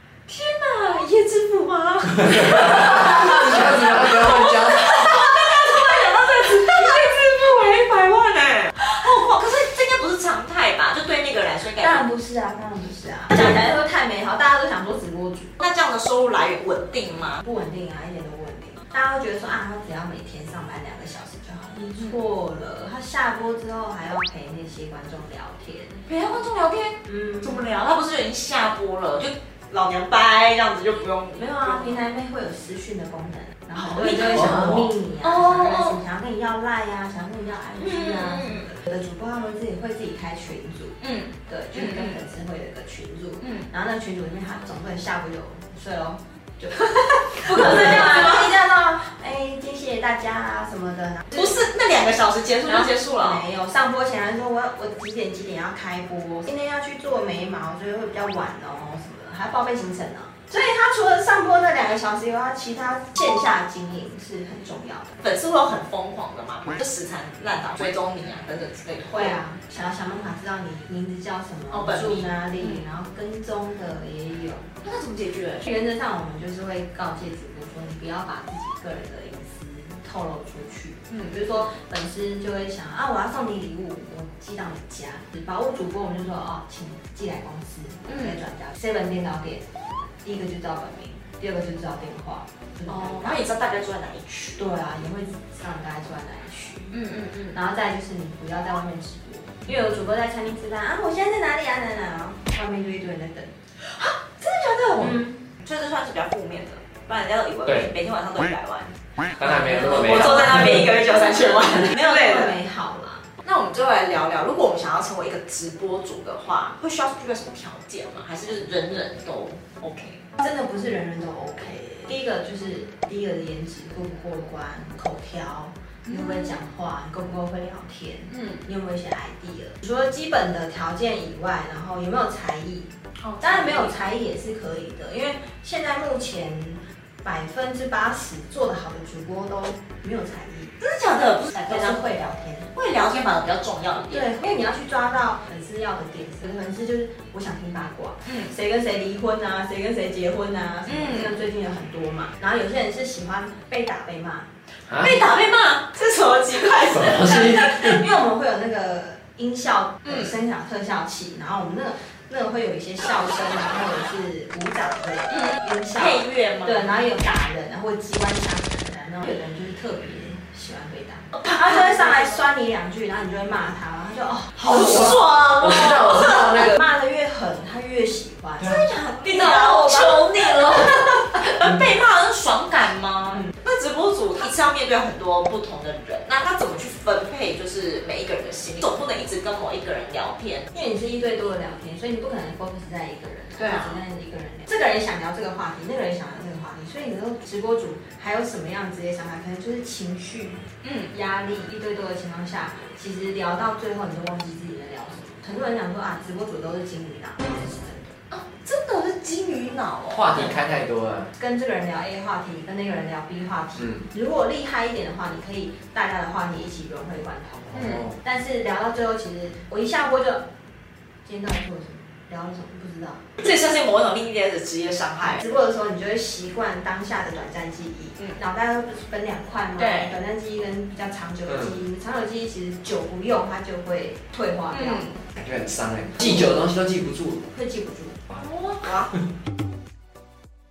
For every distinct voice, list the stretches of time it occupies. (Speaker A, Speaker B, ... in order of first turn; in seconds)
Speaker A: 0.3-12.1, 15.6-17.4, 26.1-32.0, 33.8-36.0, 37.8-38.7, 41.0-42.2, 43.4-43.7, 46.9-48.5, 51.3-53.4, 65.2-69.4, 71.7-72.8, 74.8-75.7, 81.1-81.7, 88.1-88.4, 92.9-94.7, 96.9-97.6, 103.8-112.6, 113.4-120.2, 126.1-126.5, 128.3-128.6, 133.2-133.9, 140.8-142.1, 142.7-144.3, 148.3-148.5, 150.9-151.3, 154.9-158.0, 160.1-160.3, 165.3-166.9, 171.3-172.4, 174.6-176.8, 178.6-190.7, 193.6-194.0, 200.8-201.1, 208.3-210.6, 217.7-218.0, 223.4-225.4, 229.8-230.2, 234.7-235.2, 238.3-239.1
Speaker B: 2.4-5.1, 107.7-107.9, 109.3-110.9, 154.9-155.1, 156.9-158.0, 174.7-176.8, 210.1-211.3, 213.8-214.0, 217.8-218.1, 231.5-231.8, 235.4-237.5
Speaker C: 5.8-7.1, 11.8-15.5, 17.4-26.0, 27.0-27.6, 31.4-51.6, 52.7-65.2, 69.1-74.7, 75.6-89.7, 90.2-93.4, 94.6-97.0, 97.5-103.6, 105.0-105.4, 109.5-113.2, 120.4-140.8, 141.7-142.7, 144.1-154.5, 157.1-175.2, 176.1-180.8, 190.7-208.2, 211.3-220.4, 221.2-223.2, 225.3-235.2, 236.2-236.6, 237.5-238.2